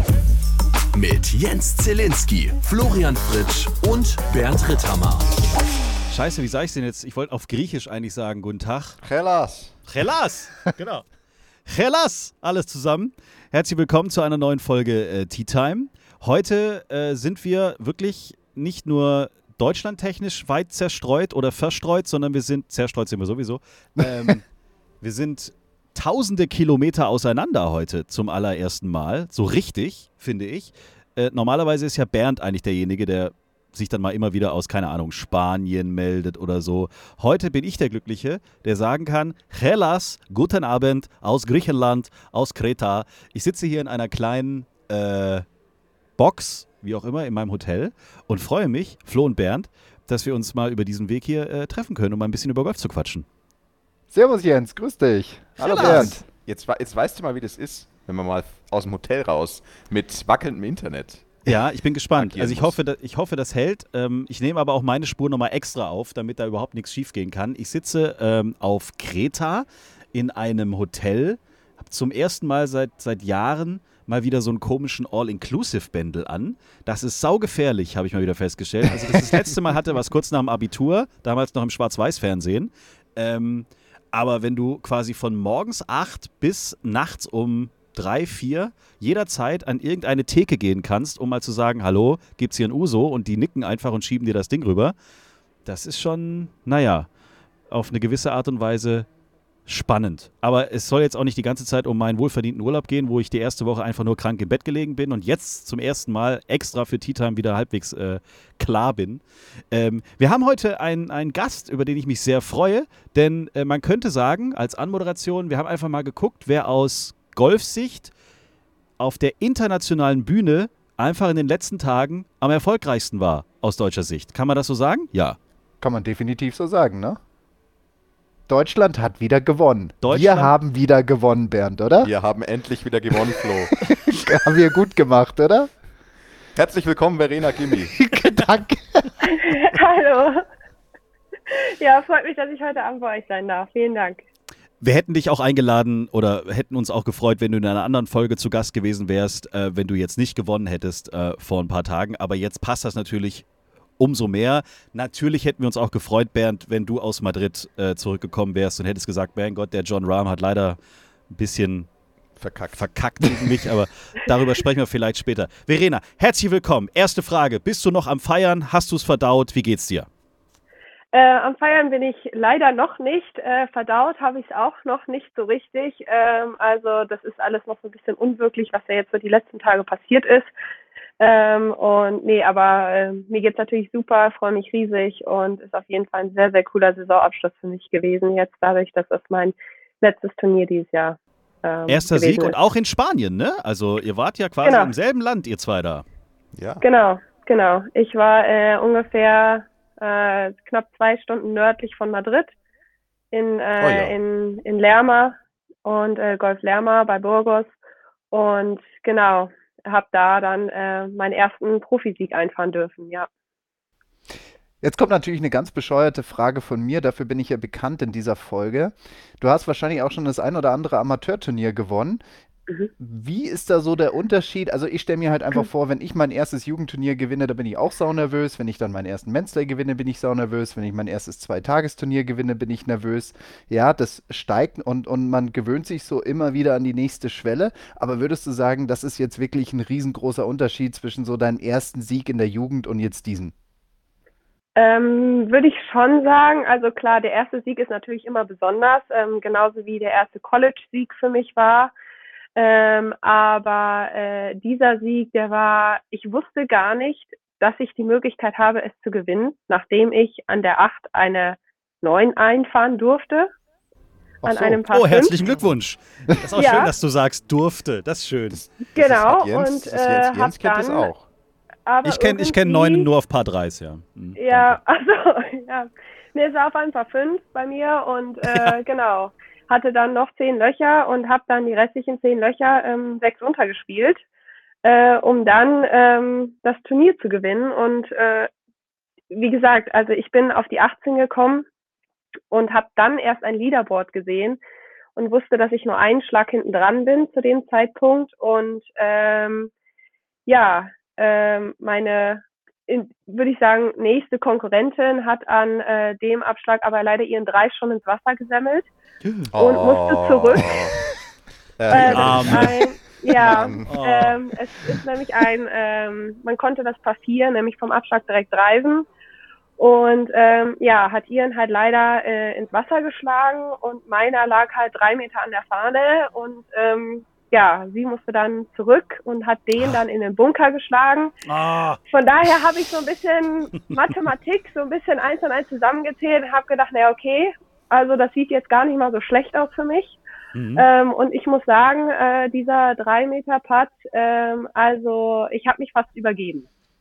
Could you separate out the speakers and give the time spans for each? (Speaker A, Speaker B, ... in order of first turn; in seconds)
Speaker A: 0.9-5.3
Speaker B: 6.1-9.0, 9.9-11.1, 11.7-24.4, 25.0-45.5, 46.2-53.2, 55.6-56.1, 61.5-94.9, 95.7-97.1, 97.7-99.1, 99.7-118.1, 119.0-125.4, 130.0-130.5, 144.8-153.4, 154.0-160.8, 161.3-161.9, 162.7-170.1, 191.9-196.1, 264.9-268.6, 272.0-274.8, 278.5-278.8, 309.2-309.5, 311.9-312.8, 313.8-314.4, 331.4-332.0, 340.6-340.9
Speaker C: 9.0-9.8, 55.7-61.5, 62.2-62.8, 132.0-133.8, 136.6-137.9, 162.4-163.6, 196.6-196.8, 203.8-204.2, 268.5-271.3, 309.5-311.1, 311.8-313.9
Speaker D: 54.1-56.2, 125.8-127.2, 128.5-132.1, 133.7-135.7, 138.0-139.1, 214.8-222.2, 223.0-243.5, 264.4-264.8
Speaker E: 139.3-140.4, 141.5-144.2, 171.1-180.5, 181.2-192.6, 194.6-194.9, 196.8-202.5, 203.3-207.7, 208.3-213.3, 244.8-251.9, 252.6-263.5, 264.4-265.4, 266.5-266.9, 268.9-271.1, 271.9-273.1, 274.4-284.2, 284.8-288.5, 289.3-291.7, 292.5-294.6, 295.2-299.7, 300.5-308.9, 309.6-310.8, 311.9-319.1, 319.8-331.3, 332.1-340.2, 340.8-346.7